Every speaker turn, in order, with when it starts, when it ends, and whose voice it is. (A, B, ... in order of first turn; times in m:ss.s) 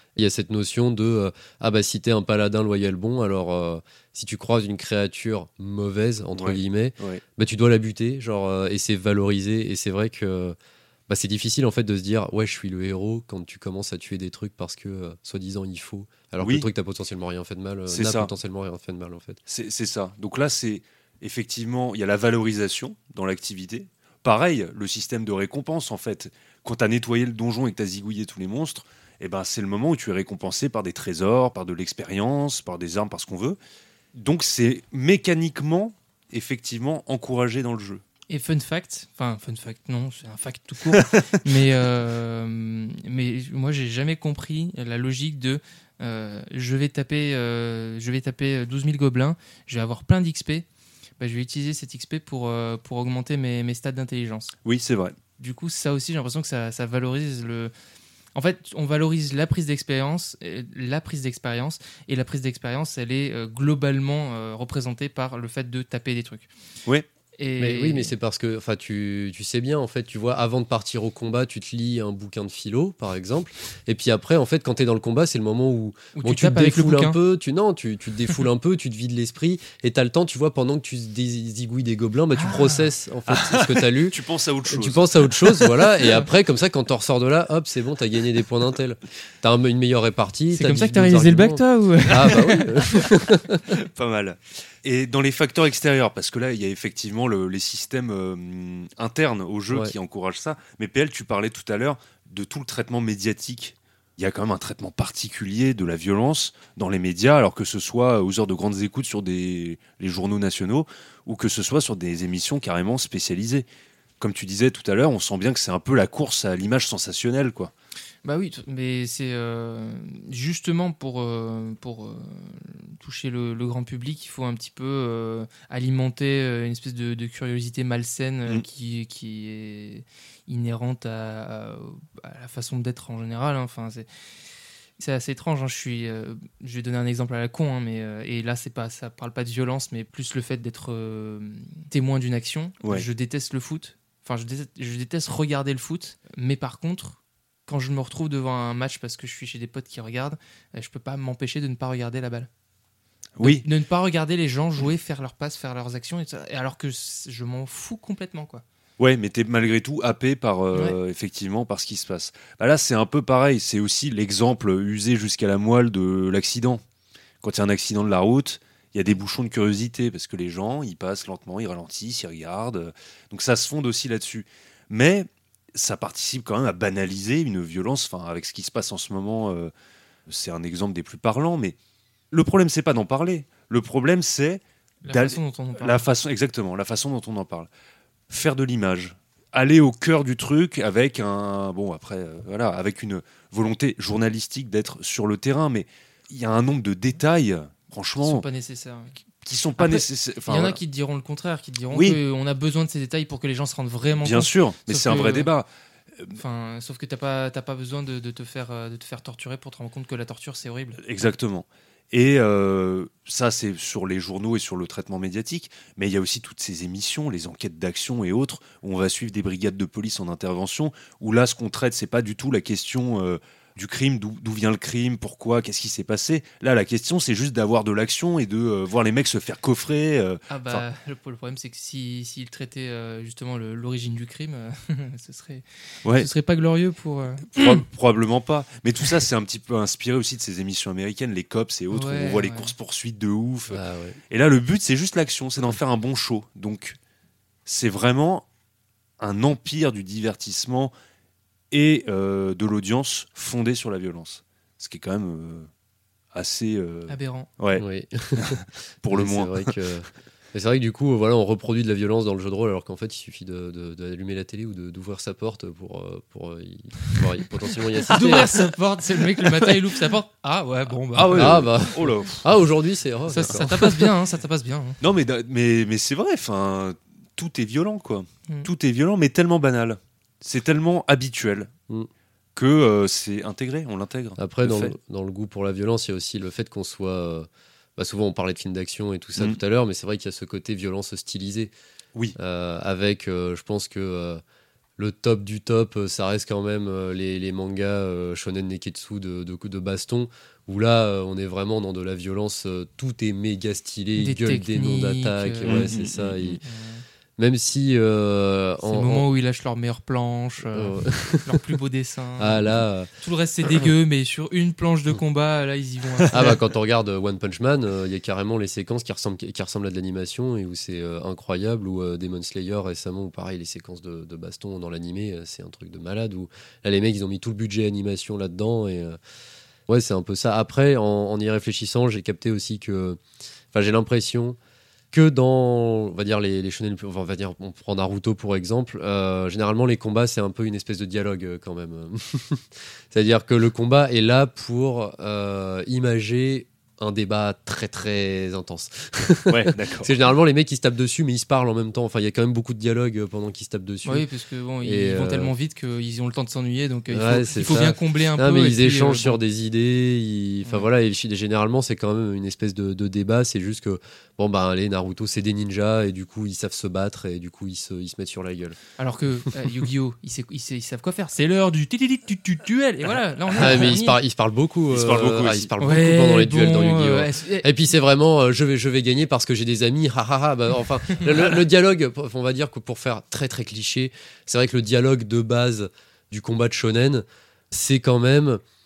0:00.2-0:10.6 A
0:06.4-0:07.2 B
0:11.1-0:19.4 A
0:16.4-0:16.7 B
0:17.9-0:18.3 B
0:19.5-0:33.6 B
0:34.1-0:38.0 B
0:38.3-0:50.7 C
0:51.2-0:54.5 C
0:54.6-0:55.2 B
0:55.4-0:57.7 C
0:58.4-1:06.5 C
1:07.4-1:08.1 C
1:07.6-1:33.8 A
1:16.2-1:17.2 C
1:22.4-1:22.9 C
1:23.3-1:25.7 B
1:30.5-1:33.2 C
1:32.1-1:32.4 B
1:33.7-1:53.7 B
1:54.2-1:57.7 B
1:58.2-2:14.1 C
2:15.0-2:32.5 C
2:33.4-2:33.7 B
2:33.4-2:38.6 C
2:39.0-2:46.8 B
2:47.4-2:59.7 B
3:00.3-3:01.8 B
3:02.3-3:07.7 B
3:05.0-3:06.0 C
3:08.3-3:18.4 B
3:18.2-3:19.2 C
3:19.4-3:20.8 B
3:19.8-3:25.5 C
3:21.9-3:22.2 B
3:24.2-3:25.7 B
3:26.4-3:31.0 C
3:31.0-3:50.8 B
3:50.5-3:57.8 C
3:57.5-4:07.0 B
4:01.9-4:02.7 C
4:03.7-4:04.2 A
4:07.7-4:08.5 B
4:09.2-4:10.9 B
4:11.7-4:15.7 B
4:16.3-4:17.8 B
4:17.1-4:17.5 C
4:17.8-4:28.5 A
4:18.4-4:19.8 B
4:28.1-4:31.7 C
4:31.1-4:32.5 B
4:31.3-4:33.8 A
4:33.3-4:35.0 C
4:33.4-4:34.0 B
4:35.0-4:41.7 B
4:42.6-4:44.9 B
4:44.4-4:51.7 A
4:52.4-4:54.4 A
4:55.0-5:06.6 A
5:04.2-5:06.0 C
5:05.7-5:06.6 B
5:06.6-5:07.0 C
5:07.4-5:09.3 A
5:08.8-5:16.6 C
5:10.7-5:11.8 A
5:12.4-5:13.1 A
5:16.3-5:29.2 A
5:29.9-5:33.2 A
5:33.7-5:34.6 A
5:35.1-5:54.2 A
5:49.5-5:50.1 B
5:54.0-5:59.4 C
5:54.8-5:55.5 A
5:57.1-6:08.8 A
6:09.0-6:14.2 C
6:13.6-6:28.6 A
6:14.9-6:15.7 B
6:15.8-6:17.7 C